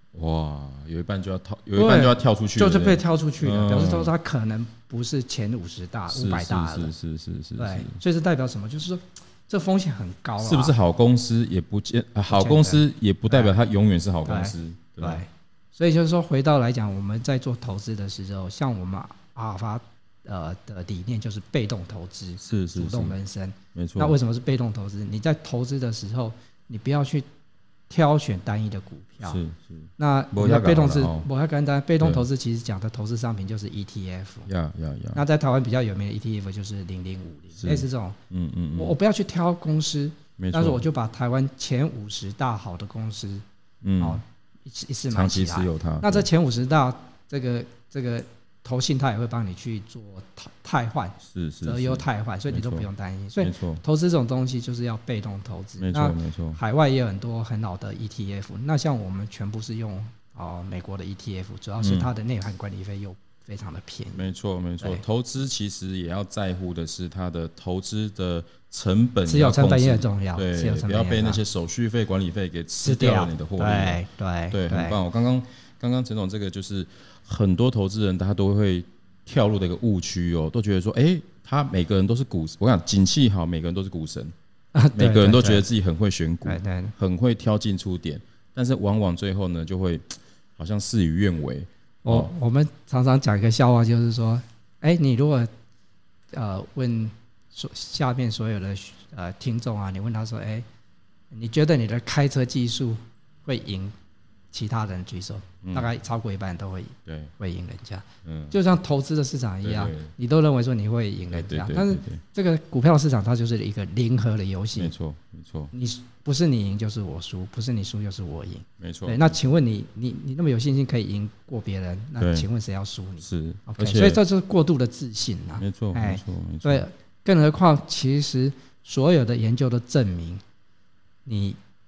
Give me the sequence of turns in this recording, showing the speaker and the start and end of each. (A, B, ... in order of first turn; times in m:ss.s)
0:00.1-0:04.1 A
0:01.8-0:06.9 B
0:06.1-0:08.0 A
0:07.6-0:10.8 B
0:10.4-0:15.2 A
0:12.3-0:13.5 B
0:14.2-0:27.2 B
0:22.4-0:23.2 A
0:23.7-0:24.2 A
0:27.9-0:29.4 B
0:29.2-0:31.2 A
0:30.0-0:34.5 B
0:32.0-0:32.2 A
0:34.5-0:35.2 A
0:35.1-0:38.2 B
0:37.6-0:38.9 A
0:38.7-0:43.4 B
0:40.4-0:40.8 A
0:43.8-0:44.2 A
0:44.0-1:04.2 B
0:45.1-0:46.3 A
0:51.2-0:52.9 A
0:53.4-0:53.8 A
0:55.8-0:56.6 A
1:01.8-1:02.1 A
1:04.1-1:24.3 A
1:09.2-1:11.4 B
1:12.8-1:15.0 B
1:24.7-1:25.6 B
1:24.9-1:32.3 A
1:26.4-1:26.9 B
1:32.0-1:35.5 B
1:36.3-1:40.6 B
1:41.3-1:43.9 B
1:44.5-1:54.9 B
1:45.6-1:45.9 A
1:47.0-1:47.3 A
1:48.2-1:48.5 A
1:49.6-1:50.1 A
1:51.3-1:52.2 A
1:54.8-1:55.7 A
1:55.7-2:10.4 B
1:58.8-1:59.3 A
2:02.2-2:02.4 A
2:03.2-2:04.2 A
2:05.6-2:06.8 A
2:11.2-2:11.6 B